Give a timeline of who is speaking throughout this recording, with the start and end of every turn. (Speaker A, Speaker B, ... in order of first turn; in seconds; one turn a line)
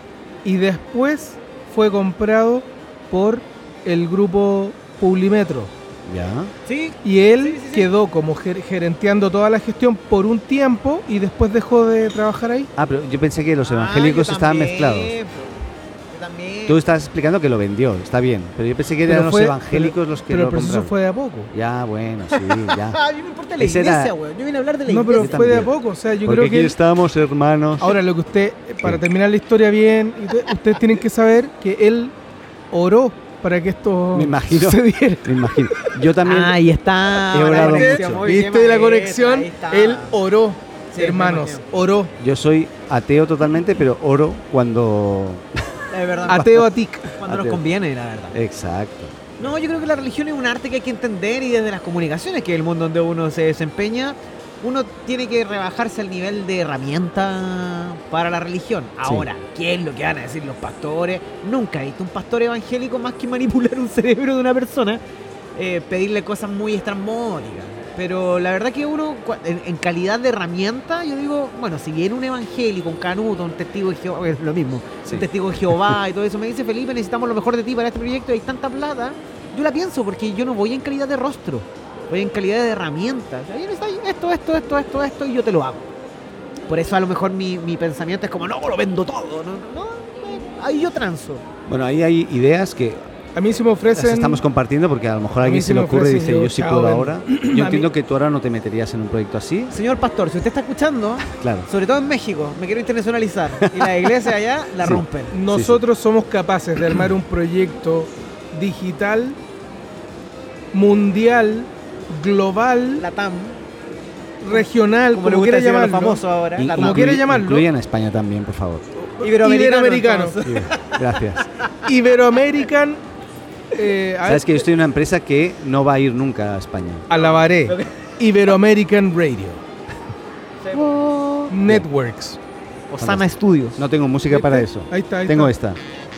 Speaker A: 0.4-5.7
Speaker B: 6.0-6.5
Speaker C: 6.7-7.9
Speaker A: 7.0-12.7
Speaker B: 12.8-15.1
Speaker C: 13.6-15.6
Speaker C: 16.1-16.8
Speaker B: 16.7-20.9
Speaker A: 19.1-21.5
Speaker B: 21.5-23.0
Speaker C: 22.3-25.6
Speaker B: 23.6-24.1
Speaker A: 24.9-26.8
Speaker B: 25.1-27.9
Speaker A: 27.8-32.1
Speaker A: 32.7-35.9
Speaker B: 34.1-36.6
Speaker C: 36.2-40.1
Speaker B: 37.3-38.2
Speaker A: 37.4-42.1
Speaker C: 40.9-41.6
Speaker B: 42.2-45.5
Speaker C: 45.9-46.5
Speaker A: 46.3-47.1
Speaker B: 46.3-46.5
Speaker C: 47.2-48.4
Speaker B: 47.2-47.6
Speaker B: 48.3-49.3
Speaker C: 49.4-65.0
Speaker C: 65.5-85.9
Speaker B: 75.0-76.0
Speaker C: 86.7-91.4
Speaker B: 91.7-93.0
Speaker A: 93.3-94.4
Speaker B: 93.9-99.8
Speaker A: 95.4-97.9
Speaker C: 99.7-105.4
Speaker B: 101.2-101.7
Speaker B: 103.6-104.1
Speaker B: 104.8-105.8
Speaker A: 105.3-109.4
Speaker A: 110.7-113.0
Speaker C: 113.0-113.6
Speaker A: 114.4-116.2
Speaker C: 114.5-117.1
Speaker B: 116.6-118.8
Speaker A: 116.8-117.7
Speaker A: 119.1-120.3
Speaker C: 119.2-121.7
Speaker B: 120.4-121.5
Speaker A: 121.8-123.0
Speaker A: 123.7-124.6
Speaker B: 124.2-127.1
Speaker A: 127.1-129.6
Speaker C: 127.1-128.1
Speaker C: 130.6-131.5
Speaker A: 131.5-132.4
Speaker C: 132.9-133.8
Speaker B: 133.0-135.8
Speaker A: 134.3-135.5